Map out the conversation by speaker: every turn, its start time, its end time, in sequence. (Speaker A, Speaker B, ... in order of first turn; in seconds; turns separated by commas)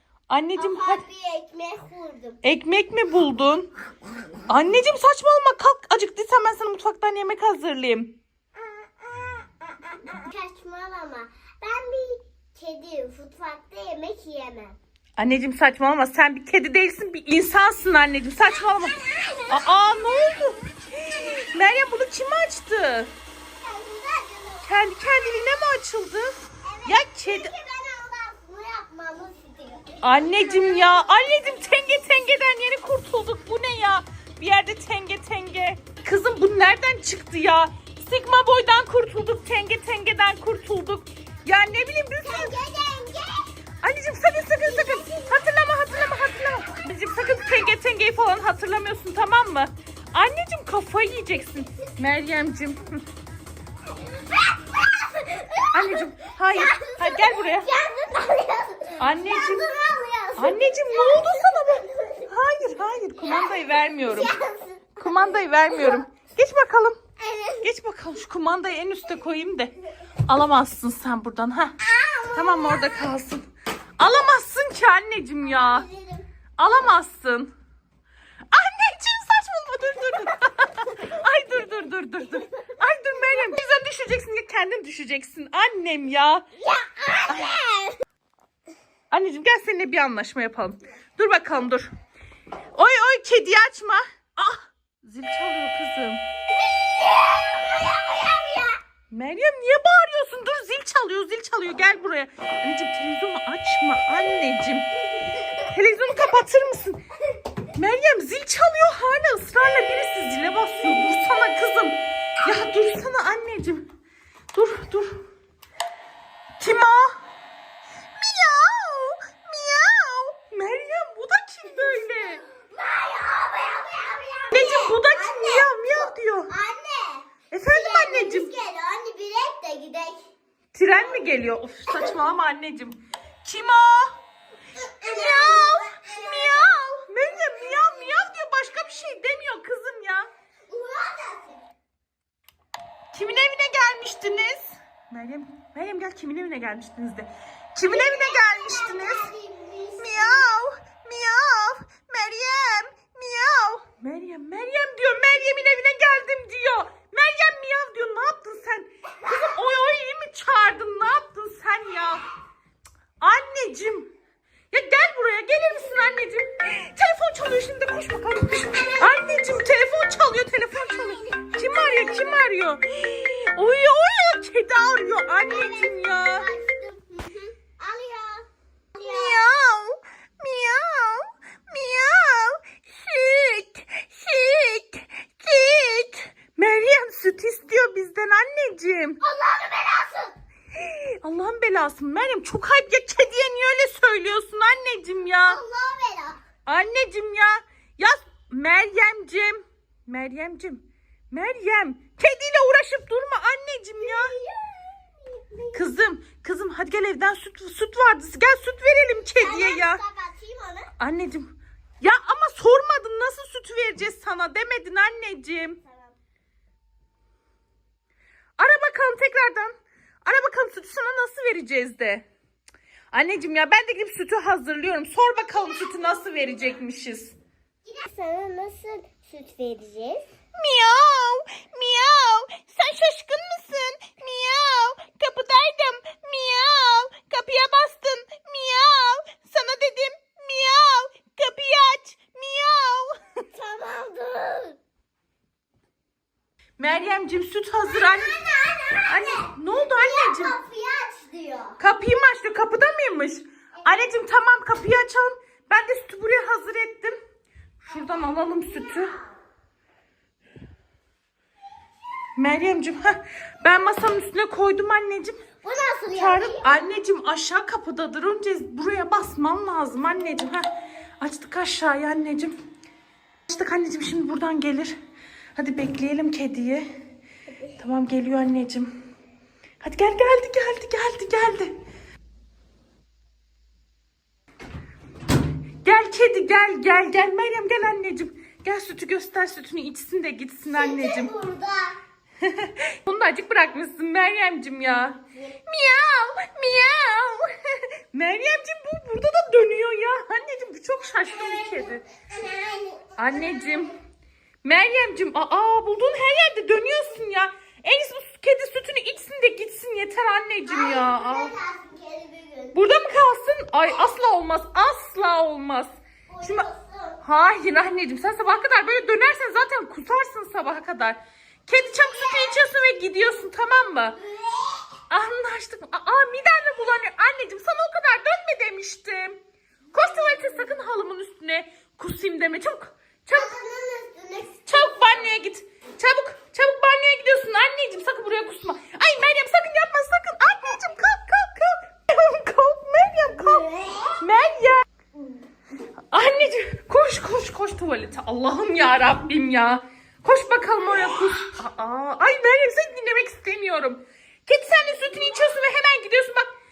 Speaker A: 0.3-1.0, Speaker B: 0.5-2.4, Speaker A: 2.4-3.7, Speaker A: 4.5-8.2, Speaker B: 8.6-14.8, Speaker A: 15.2-23.1, Speaker B: 18.9-19.8, Speaker B: 23.6-24.8, Speaker A: 24.6-26.3, Speaker B: 26.6-32.4, Speaker A: 26.8-27.5, Speaker A: 30.0-42.5, Speaker B: 42.2-43.5, Speaker A: 43.8-53.0, Speaker B: 44.6-45.4, Speaker B: 54.1-62.3, Speaker A: 55.7-57.7, Speaker A: 59.0-59.7, Speaker A: 60.4-64.3, Speaker B: 63.1-66.0, Speaker A: 65.0-67.0, Speaker B: 67.2-67.7, Speaker A: 67.6-69.7, Speaker A: 70.3-71.8, Speaker B: 71.8-73.2, Speaker A: 72.3-73.5, Speaker A: 74.0-75.9, Speaker B: 75.4-76.3, Speaker A: 76.6-77.5, Speaker A: 78.5-86.4, Speaker B: 86.6-88.0, Speaker A: 87.3-87.6, Speaker A: 89.1-91.9, Speaker A: 92.7-96.2, Speaker B: 96.5-98.8, Speaker A: 99.1-104.9, Speaker B: 105.2-105.6, Speaker A: 105.6-107.0, Speaker A: 107.7-113.9, Speaker A: 114.5-115.2, Speaker A: 116.6-117.2, Speaker A: 118.2-122.4, Speaker B: 121.8-130.3, Speaker A: 124.5-126.5, Speaker A: 127.5-128.5, Speaker A: 130.7-134.1, Speaker B: 131.9-132.2, Speaker B: 134.8-138.2, Speaker A: 135.1-140.3, Speaker B: 140.7-141.6, Speaker A: 143.1-149.3, Speaker B: 147.8-150.6, Speaker A: 150.0-162.2, Speaker A: 163.2-164.1, Speaker A: 164.7-176.5, Speaker B: 168.9-169.2, Speaker B: 170.9-172.4, Speaker B: 175.4-179.4, Speaker A: 179.0-189.2, Speaker B: 189.2-190.3, Speaker A: 190.7-195.6, Speaker B: 195.4-196.4, Speaker A: 196.7-204.3, Speaker B: 204.0-205.9, Speaker A: 205.7-210.0, Speaker B: 209.4-210.9, Speaker A: 211.0-211.5, Speaker A: 212.0-215.8, Speaker B: 215.8-216.1, Speaker A: 218.6-219.7, Speaker A: 220.2-222.2, Speaker A: 223.1-227.3, Speaker B: 225.5-226.7, Speaker B: 227.8-230.3, Speaker A: 230.6-243.2, Speaker B: 243.5-244.8, Speaker A: 246.8-248.4, Speaker B: 247.8-251.8, Speaker A: 249.0-250.5, Speaker A: 251.8-257.1, Speaker A: 257.8-259.1, Speaker B: 258.1-259.4, Speaker A: 262.4-265.4, Speaker B: 265.6-266.7, Speaker A: 266.1-270.6, Speaker A: 271.2-272.5, Speaker A: 273.5-274.9, Speaker A: 275.6-276.9, Speaker A: 277.8-278.9, Speaker A: 279.8-281.7, Speaker A: 285.8-291.3, Speaker B: 290.6-292.0, Speaker A: 292.4-297.5, Speaker B: 295.3-295.6, Speaker A: 298.1-302.0, Speaker B: 301.2-303.9, Speaker A: 303.2-303.9, Speaker A: 304.6-311.5, Speaker B: 310.6-312.8, Speaker A: 312.7-316.7, Speaker B: 316.3-317.2, Speaker A: 317.2-324.2, Speaker B: 321.7-322.6, Speaker B: 324.1-325.0, Speaker A: 325.1-329.4, Speaker A: 329.9-333.5, Speaker B: 333.3-335.4, Speaker A: 334.7-343.6, Speaker B: 343.3-344.2, Speaker A: 344.2-344.8, Speaker A: 346.1-356.5